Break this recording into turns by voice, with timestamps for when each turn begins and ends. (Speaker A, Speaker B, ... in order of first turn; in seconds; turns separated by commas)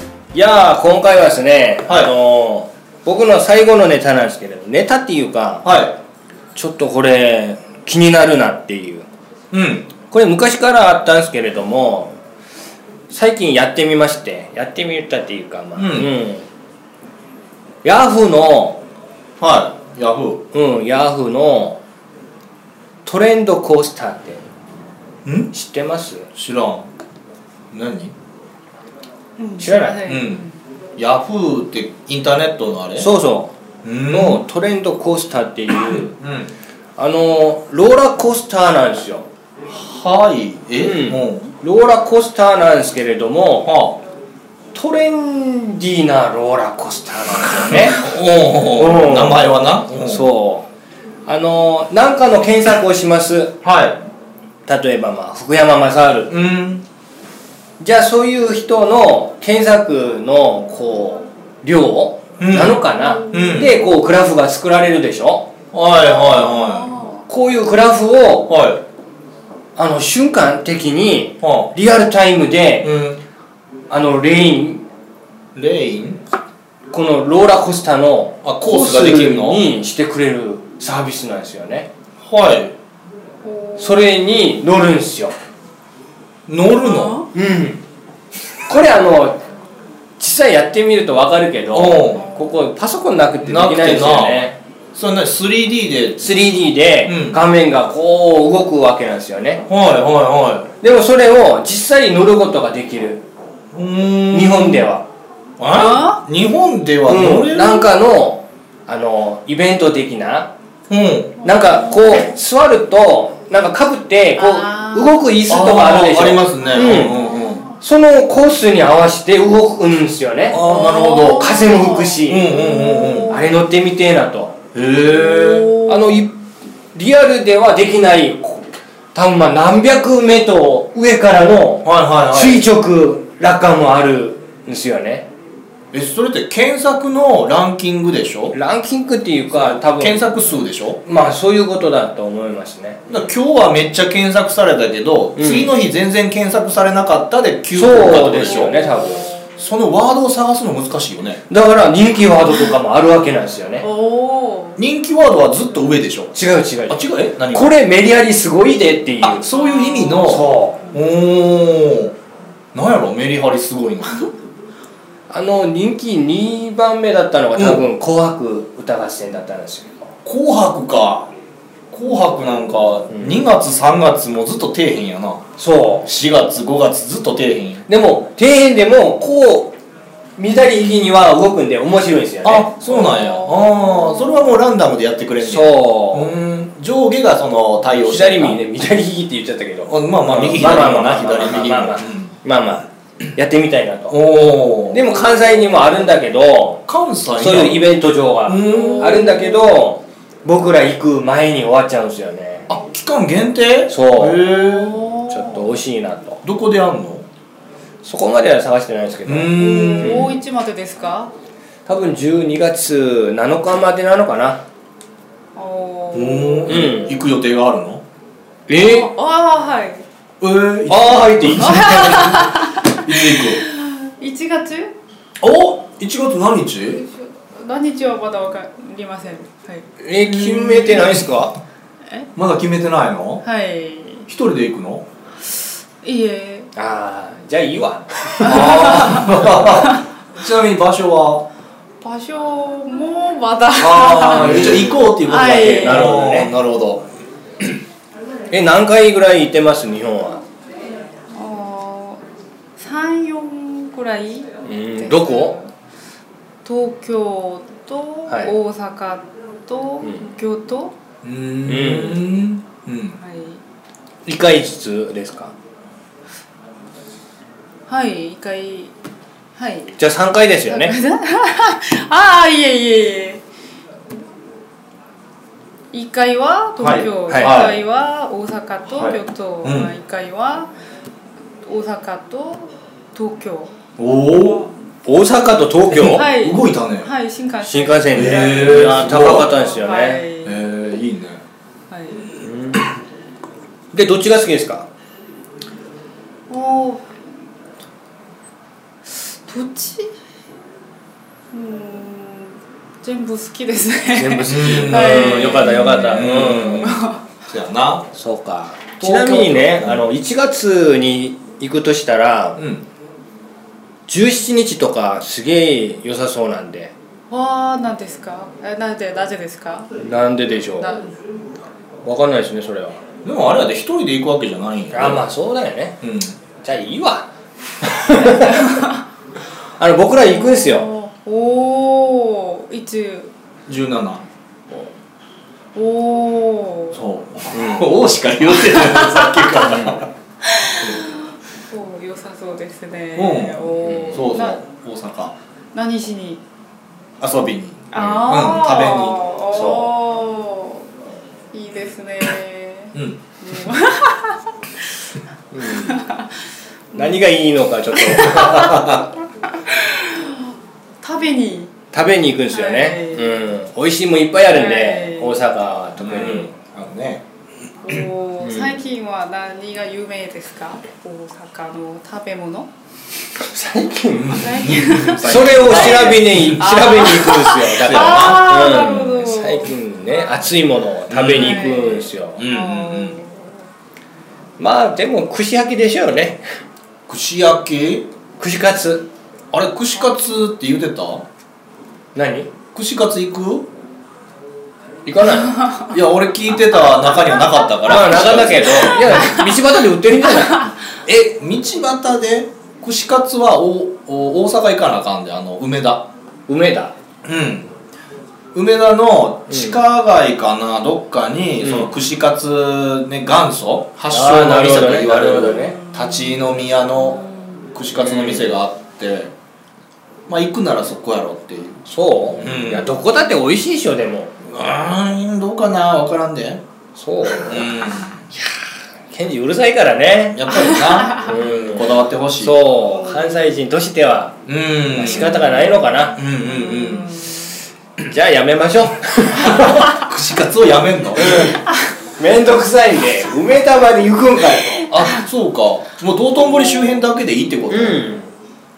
Speaker A: 0.3-5.7, Speaker B: 1.9-2.1, Speaker B: 5.6-6.0, Speaker A: 6.5-9.1, Speaker B: 9.5-9.9, Speaker A: 10.1-12.1, Speaker A: 13.1-16.5, Speaker B: 15.8-16.1, Speaker A: 17.8-18.8, Speaker B: 19.4-20.4, Speaker A: 20.5-21.8, Speaker A: 23.1-24.4, Speaker B: 25.2-25.5, Speaker A: 25.5-26.3, Speaker B: 26.4-26.9, Speaker B: 27.7-28.1, Speaker C: 29.4-30.6, Speaker A: 29.6-30.0, Speaker B: 30.1-30.4, Speaker B: 31.0-33.1, Speaker A: 33.0-33.5, Speaker B: 33.8-34.4, Speaker A: 34.1-36.1, Speaker B: 35.8-36.5, Speaker A: 37.0-39.3, Speaker B: 39.7-41.5, Speaker A: 40.8-43.7, Speaker B: 43.6-44.0, Speaker A: 44.7-48.1, Speaker B: 47.6-50.3, Speaker A: 48.8-50.7, Speaker A: 51.3-53.6, Speaker B: 53.6-54.0, Speaker A: 54.7-56.3, Speaker B: 56.3-56.8, Speaker A: 57.8-65.5, Speaker B: 62.4-63.8, Speaker C: 63.0-63.7, Speaker B: 65.7-66.9, Speaker C: 66.0-67.2, Speaker A: 67.3-68.5, Speaker B: 68.5-68.8, Speaker A: 69.8-73.0, Speaker B: 71.4-71.7, Speaker B: 72.8-73.2, Speaker A: 73.9-74.8, Speaker B: 75.5-76.2, Speaker A: 76.9-81.9, Speaker B: 78.4-79.7, Speaker B: 82.2-82.7, Speaker C: 83.4-84.1, Speaker A: 83.8-85.3, Speaker B: 86.5-87.2, Speaker C: 86.8-87.3, Speaker A: 87.3-87.8, Speaker A: 88.7-89.4, Speaker A: 90.2-94.6, Speaker B: 91.7-92.2, Speaker C: 92.2-92.5, Speaker B: 93.5-96.2, Speaker A: 96.2-99.7, Speaker B: 97.1-97.4, Speaker B: 99.7-100.7, Speaker A: 100.8-103.2, Speaker B: 103.7-104.9, Speaker A: 104.3-105.0, Speaker B: 105.6-107.9, Speaker C: 105.7-106.2, Speaker A: 107.1-110.5, Speaker B: 110.9-111.4, Speaker A: 111.4-117.2, Speaker C: 111.4-112.0, Speaker C: 114.4-115.2, Speaker B: 115.5-117.7, Speaker A: 117.8-120.6, Speaker B: 120.5-121.7, Speaker C: 120.5-123.5, Speaker A: 121.1-124.6, Speaker B: 122.2-123.3, Speaker B: 124.7-125.8, Speaker C: 125.0-126.2, Speaker A: 125.9-126.4, Speaker A: 126.9-135.3, Speaker B: 131.8-132.7, Speaker B: 135.9-138.6, Speaker A: 138.5-140.3, Speaker B: 139.5-141.0, Speaker A: 141.0-143.1, Speaker B: 143.1-148.8, Speaker A: 145.4-145.7, Speaker A: 147.7-149.3, Speaker C: 148.4-149.6, Speaker B: 149.6-151.4, Speaker A: 151.5-153.9, Speaker C: 153.8-154.8, Speaker B: 154.8-157.7, Speaker A: 156.3-159.5, Speaker B: 159.2-162.2, Speaker C: 159.5-160.9, Speaker A: 160.2-160.8, Speaker B: 162.7-164.3, Speaker A: 165.3-170.1, Speaker B: 167.6-167.8, Speaker B: 170.2-171.3, Speaker B: 171.9-175.5, Speaker A: 173.1-173.4, Speaker A: 175.6-176.1, Speaker B: 176.1-177.8, Speaker A: 177.9-179.8, Speaker A: 180.4-182.8, Speaker B: 182.4-188.6, Speaker C: 182.9-184.5, Speaker A: 185.4-186.3, Speaker A: 188.1-194.2, Speaker B: 189.9-192.3, Speaker B: 194.1-195.2, Speaker A: 194.9-196.8, Speaker B: 196.9-197.9, Speaker A: 197.4-202.7, Speaker B: 198.5-199.3, Speaker C: 198.6-199.8, Speaker B: 202.7-205.1, Speaker A: 203.9-204.6, Speaker C: 204.6-205.6, Speaker A: 205.3-206.4, Speaker B: 206.4-207.3, Speaker A: 208.0-210.3, Speaker B: 209.3-210.4, Speaker C: 209.6-211.3, Speaker A: 211.9-214.6, Speaker C: 215.6-217.0, Speaker B: 216.1-218.0, Speaker A: 216.7-217.2, Speaker A: 218.7-219.1, Speaker C: 218.7-220.1, Speaker B: 220.4-223.6, Speaker A: 220.9-222.1, Speaker C: 221.6-224.9, Speaker B: 225.4-227.0, Speaker C: 227.0-229.9, Speaker A: 230.0-231.5, Speaker B: 230.2-231.3, Speaker B: 232.4-233.4, Speaker C: 233.4-234.3, Speaker B: 234.3-235.1, Speaker C: 236.0-236.7, Speaker A: 236.8-239.0, Speaker C: 238.4-240.0, Speaker B: 238.4-241.4, Speaker C: 242.0-246.2, Speaker B: 243.8-247.1, Speaker A: 244.4-246.5, Speaker A: 248.5-250.4, Speaker C: 251.3-252.2, Speaker C: 252.8-255.7, Speaker A: 254.7-255.6, Speaker C: 256.6-260.9, Speaker B: 261.2-263.2, Speaker A: 261.6-262.2, Speaker C: 263.2-263.6, Speaker A: 264.3-265.5, Speaker C: 267.9-268.9, Speaker C: 269.6-270.0, Speaker A: 270.0-270.9, Speaker C: 270.7-273.4, Speaker C: 275.9-280.7, Speaker B: 276.8-277.8, Speaker A: 277.3-277.6, Speaker B: 278.9-279.9, Speaker C: 281.6-283.8, Speaker B: 284.0-284.7, Speaker C: 284.4-284.7, Speaker A: 285.1-286.2, Speaker B: 285.9-287.1, Speaker C: 286.0-290.6, Speaker A: 287.6-290.2, Speaker B: 288.1-289.5, Speaker B: 290.4-291.4, Speaker C: 291.9-292.3, Speaker A: 292.4-292.9, Speaker A: 293.9-294.9, Speaker C: 296.5-297.1, Speaker C: 299.4-300.1, Speaker C: 301.5-307.3, Speaker A: 304.1-306.9, Speaker B: 304.5-308.1, Speaker A: 308.1-312.6, Speaker B: 309.0-310.1, Speaker B: 312.6-312.9, Speaker A: 314.1-316.9, Speaker C: 317.3-319.9, Speaker A: 320.0-321.0, Speaker C: 320.8-321.1, Speaker A: 322.1-323.0, Speaker B: 323.2-325.3, Speaker A: 324.9-326.0, Speaker B: 326.0-326.4, Speaker A: 326.6-327.3, Speaker A: 327.8-328.8, Speaker C: 328.4-328.9, Speaker A: 329.8-330.9, Speaker C: 330.1-333.3, Speaker B: 333.7-334.2, Speaker C: 335.8-337.0, Speaker B: 336.9-340.1, Speaker A: 337.5-337.9, Speaker C: 340.4-344.6, Speaker A: 340.8-341.1, Speaker B: 343.2-345.4, Speaker A: 343.8-344.3, Speaker C: 345.7-346.4, Speaker B: 347.2-349.2, Speaker C: 347.9-350.9, Speaker A: 349.5-349.9, Speaker C: 351.5-354.5, Speaker B: 352.9-353.2, Speaker A: 355.5-356.0, Speaker C: 355.7-356.3, Speaker C: 356.9-357.2, Speaker A: 356.9-359.0, Speaker C: 357.9-358.6, Speaker B: 358.3-359.1, Speaker C: 359.5-361.8, Speaker A: 361.9-366.5, Speaker C: 362.5-363.5, Speaker C: 364.4-365.5, Speaker B: 366.0-367.2, Speaker C: 367.8-372.7, Speaker A: 368.4-368.8, Speaker A: 373.4-374.5, Speaker B: 374.1-376.7, Speaker C: 374.4-379.8, Speaker A: 375.2-382.4, Speaker B: 377.8-379.1, Speaker B: 381.1-381.7, Speaker C: 381.3-383.6, Speaker B: 382.4-383.2, Speaker A: 384.6-386.4, Speaker B: 387.1-388.1, Speaker A: 388.4-389.1, Speaker B: 389.5-391.2, Speaker A: 392.1-392.5, Speaker B: 392.7-393.7, Speaker A: 395.1-395.6, Speaker B: 395.8-399.3, Speaker A: 397.9-400.7, Speaker B: 401.1-406.1, Speaker A: 406.5-406.9, Speaker B: 407.2-407.7, Speaker B: 408.5-417.2, Speaker A: 409.5-409.8, Speaker A: 411.6-411.9, Speaker A: 414.1-415.8, Speaker C: 415.9-416.4, Speaker C: 417.1-417.4, Speaker B: 417.7-419.3, Speaker A: 418.0-418.5, Speaker B: 420.3-421.8, Speaker A: 421.9-424.3, Speaker B: 422.4-423.0, Speaker B: 424.4-426.6, Speaker A: 427.0-427.7, Speaker B: 427.3-428.2, Speaker A: 429.1-434.4, Speaker B: 430.3-432.6, Speaker C: 430.7-431.2, Speaker C: 432.9-433.5, Speaker B: 434.5-437.2, Speaker A: 434.9-436.2, Speaker C: 436.4-437.5, Speaker A: 438.1-440.0, Speaker B: 439.4-441.6, Speaker A: 441.2-441.6, Speaker A: 442.2-444.9, Speaker B: 444.9-448.1, Speaker A: 447.7-448.3